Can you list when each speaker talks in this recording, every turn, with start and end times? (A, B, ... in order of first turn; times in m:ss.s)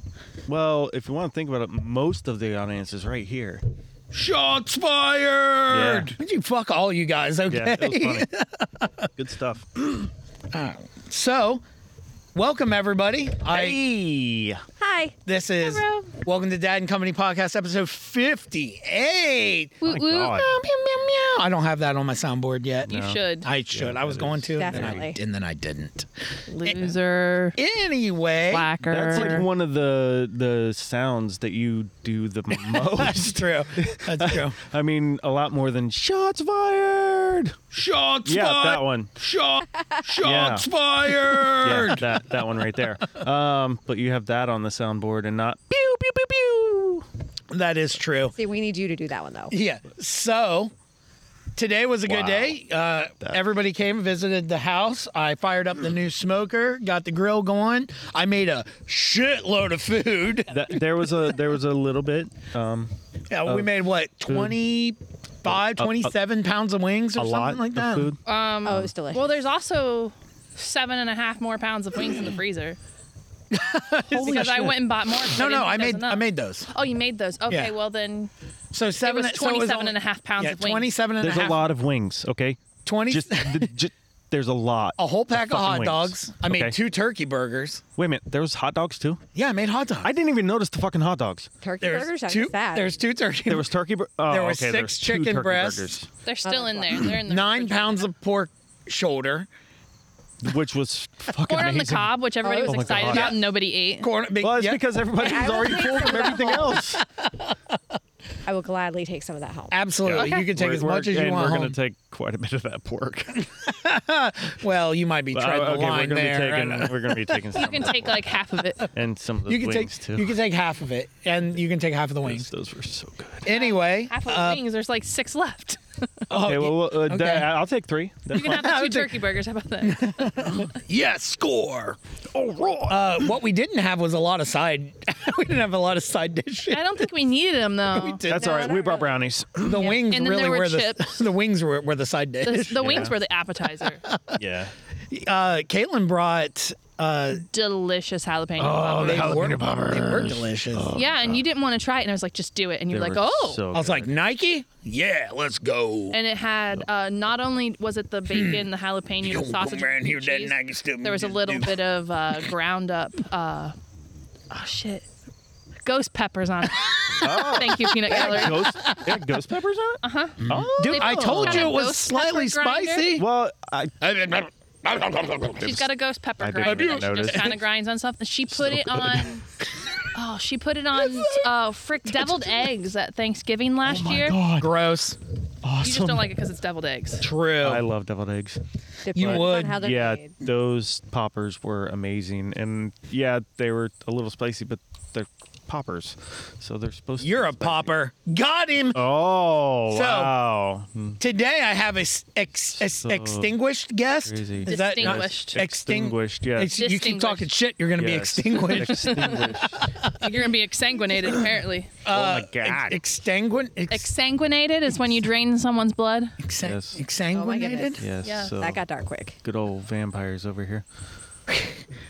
0:00.5-0:03.6 A
0:04.1-0:09.1 B
0:05.7-0:06.1 A
0:07.5-0:08.3 A
0:09.2-0:09.8 A
0:09.9-0:11.6 B
0:12.3-0:13.8 B
0:13.5-0:14.6 A
0:14.8-0:15.2 C
0:15.3-0:26.1 B
0:15.6-0:16.1 D
0:19.8-0:20.5 D
0:19.9-0:20.6 A
0:22.9-0:25.0 A
0:22.9-0:23.5 D
0:24.6-0:25.2 C
0:26.5-0:27.6 D
0:26.6-0:26.9 B
0:27.6-0:28.7 B
0:28.5-0:29.5 D
0:28.9-0:37.6 A
0:32.6-0:34.6 B
0:37.7-0:42.4 B
0:38.3-0:39.1 A
0:40.2-0:47.1 A
0:47.5-0:48.3 B
0:48.4-0:49.5 C
0:49.5-0:50.7 B
0:51.6-1:00.6 B
0:52.1-0:52.6 A
0:53.2-0:53.5 A
1:00.5-1:02.9 A
1:03.3-1:08.1 B
1:04.3-1:04.6 A
1:05.5-1:06.1 A
1:07.2-1:08.8 A
1:08.2-1:12.8 D
1:08.6-1:09.4 C
1:13.5-1:16.7 B
1:14.1-1:18.3 D
1:18.7-1:21.7 B
1:19.0-1:20.9 D
1:21.2-1:26.8 A
1:22.8-1:23.7 B
1:25.0-1:27.8 B
1:28.0-1:29.2 A
1:29.4-1:30.1 B
1:30.0-1:31.5 A
1:31.6-1:32.9 C
1:31.8-1:33.7 B
1:33.5-1:36.1 A
1:34.3-1:35.9 B
1:36.2-1:38.1 D
1:36.4-1:37.0 C
1:37.0-1:39.5 B
1:40.4-1:43.4 A
1:41.4-1:44.1 D
1:42.4-1:43.3 C
1:43.0-1:43.4 B
1:44.0-1:44.8 B
1:44.4-1:47.0 A
1:45.2-1:46.8 C
1:45.4-1:45.8 B
1:47.0-1:47.6 B
1:48.5-1:49.8 C
1:49.7-1:51.8 B
1:50.0-1:53.5 A
1:50.2-1:50.5 D
1:53.6-1:57.4 B
1:55.3-1:58.2 A
1:57.5-1:58.9 D
1:58.9-2:00.3 A
1:59.5-2:02.5 B
2:02.2-2:03.5 A
2:03.4-2:04.6 B
2:03.5-2:05.8 D
2:06.3-2:07.5 B
2:06.3-2:08.9 A
2:08.3-2:10.5 D
2:08.3-2:09.2 B
2:09.8-2:12.0 B
2:12.3-2:13.3 A
2:12.9-2:16.9 B
2:16.7-2:18.2 D
2:17.9-2:19.0 B
2:18.3-2:19.9 A
2:18.3-2:19.1 C
2:19.6-2:23.1 B
2:19.8-2:21.2 D
2:22.4-2:24.0 D
2:22.8-2:23.1 A
2:24.0-2:24.4 B
2:24.4-2:24.7 A
2:25.1-2:27.4 B
2:27.5-2:29.4 D
2:28.6-2:31.4 A
2:28.7-2:30.9 B
2:30.9-2:33.6 D
2:32.9-2:34.1 A
2:33.7-2:36.2 B
2:36.1-2:43.8 D
2:38.3-2:38.6 B
2:39.2-2:41.8 B
2:44.5-2:45.1 D
2:45.8-2:49.0 D
2:47.2-2:51.8 A
2:48.1-2:49.1 B
2:50.0-2:53.1 D
2:50.4-2:53.3 B
2:53.2-2:54.0 A
2:54.0-2:55.8 B
2:55.6-2:59.4 D
2:56.4-2:57.6 A
2:56.6-2:57.5 B
2:58.5-2:59.3 A
3:00.1-3:04.4 D
3:03.9-3:04.7 A
3:04.6-3:05.2 B
3:05.6-3:06.3 A
3:05.8-3:07.3 D
3:07.2-3:07.9 B
3:07.6-3:08.6 A
3:09.0-3:10.3 C
3:09.2-3:09.9 B
3:09.2-3:17.9 A
3:17.2-3:19.0 B
3:18.9-3:21.2 A
3:19.9-3:20.3 B
3:21.2-3:30.3 B
3:22.8-3:23.5 A
3:24.2-3:26.7 A
3:24.6-3:25.6 D
3:26.8-3:27.5 D
3:28.0-3:29.8 A
3:28.7-3:31.9 D
3:32.0-3:34.1 B
3:32.1-3:33.0 A
3:33.9-3:36.4 D
3:36.4-3:38.0 B
3:36.6-3:37.0 A
3:37.3-3:38.0 C
3:38.0-3:38.8 A
3:38.2-3:38.6 D
3:38.6-3:39.4 C
3:39.4-3:40.8 A